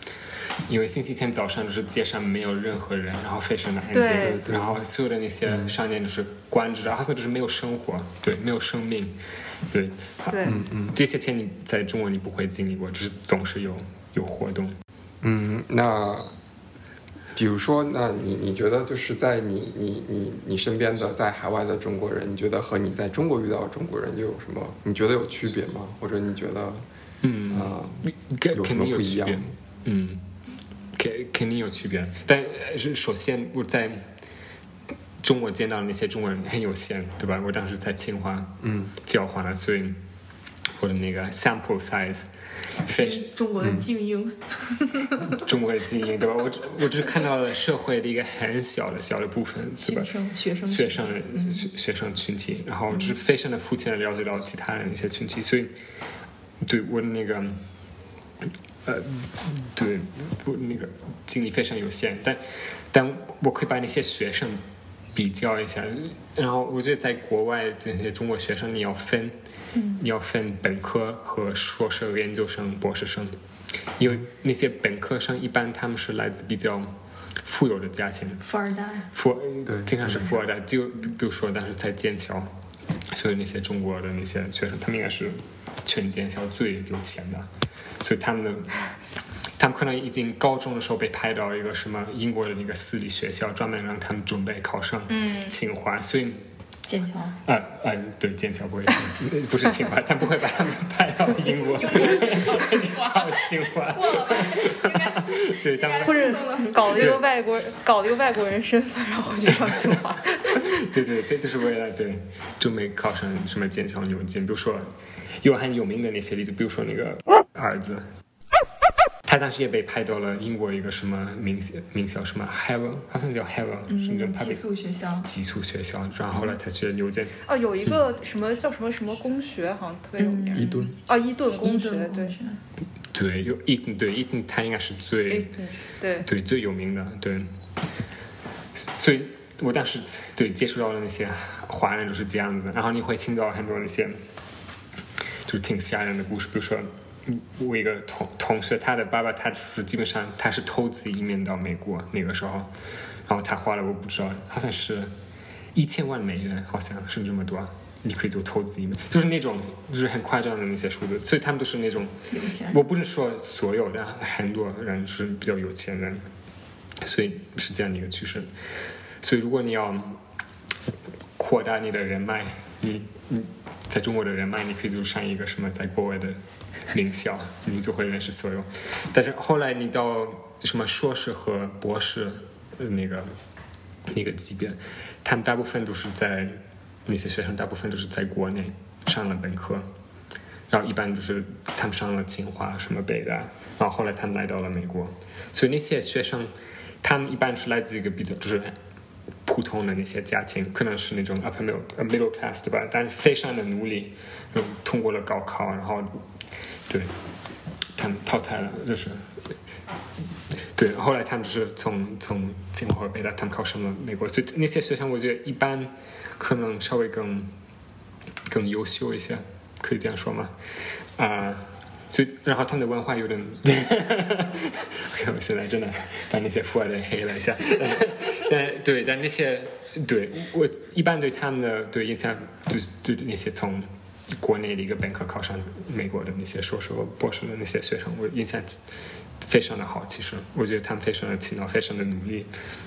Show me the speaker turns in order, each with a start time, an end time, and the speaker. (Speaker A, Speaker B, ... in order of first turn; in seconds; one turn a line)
Speaker A: 0.7-14.8
Speaker B: 3.9-4.4
Speaker C: 4.1-4.8
Speaker C: 5.5-5.7
Speaker B: 10.3-10.6
Speaker C: 10.4-10.9
Speaker C: 15.2-16.3
Speaker C: 17.3-26.8
Speaker A: 27.2-30.3
Speaker C: 27.5-29.5
Speaker A: 30.9-34.1
Speaker A: 35.2-40.0
Speaker C: 38.6-38.9
Speaker A: 40.8-42.3
Speaker A: 42.8-43.3
Speaker D: 42.9-45.4
Speaker C: 43.6-43.9
Speaker A: 45.3-50.1
Speaker D: 49.8-51.7
Speaker A: 50.6-55.7
Speaker A: 56.6-57.7
Speaker A: 58.8-69.4
Speaker D: 69.7-70.0
Speaker A: 70.0-73.3
Speaker A: 74.0-78.4
Speaker D: 78.4-79.1
Speaker A: 79.1-82.5
Speaker C: 79.7-80.3
Speaker A: 83.1-87.5
Speaker A: 88.0-88.8
Speaker A: 89.6-96.5
Speaker B: 95.1-95.5
Speaker D: 96.8-97.4
Speaker A: 97.4-107.2
Speaker D: 101.5-107.1
Speaker B: 106.0-110.7
Speaker A: 110.5-118.1
Speaker A: 119.2-124.6
Speaker D: 123.9-125.3
Speaker A: 125.2-127.4
Speaker B: 127.5-132.3
Speaker D: 130.2-130.9
Speaker C: 130.5-130.9
Speaker D: 131.6-132.6
Speaker A: 133.1-135.5
Speaker B: 135.3-136.3
Speaker A: 136.2-137.5
Speaker A: 138.8-144.2
Speaker A: 145.4-152.7
Speaker A: 153.2-155.1
Speaker A: 155.7-166.3
Speaker D: 162.3-162.8
Speaker A: 167.0-168.5
Speaker A: 169.2-170.2
Speaker A: 171.4-183.3
Speaker A: 184.1-189.9
Speaker A: 190.7-198.8
Speaker A: 199.4-206.2
Speaker A: 207.9-209.3
Speaker A: 210.7-217.5
Speaker A: 218.5-220.5
Speaker A: 221.2-238.9
Speaker A: 239.4-242.5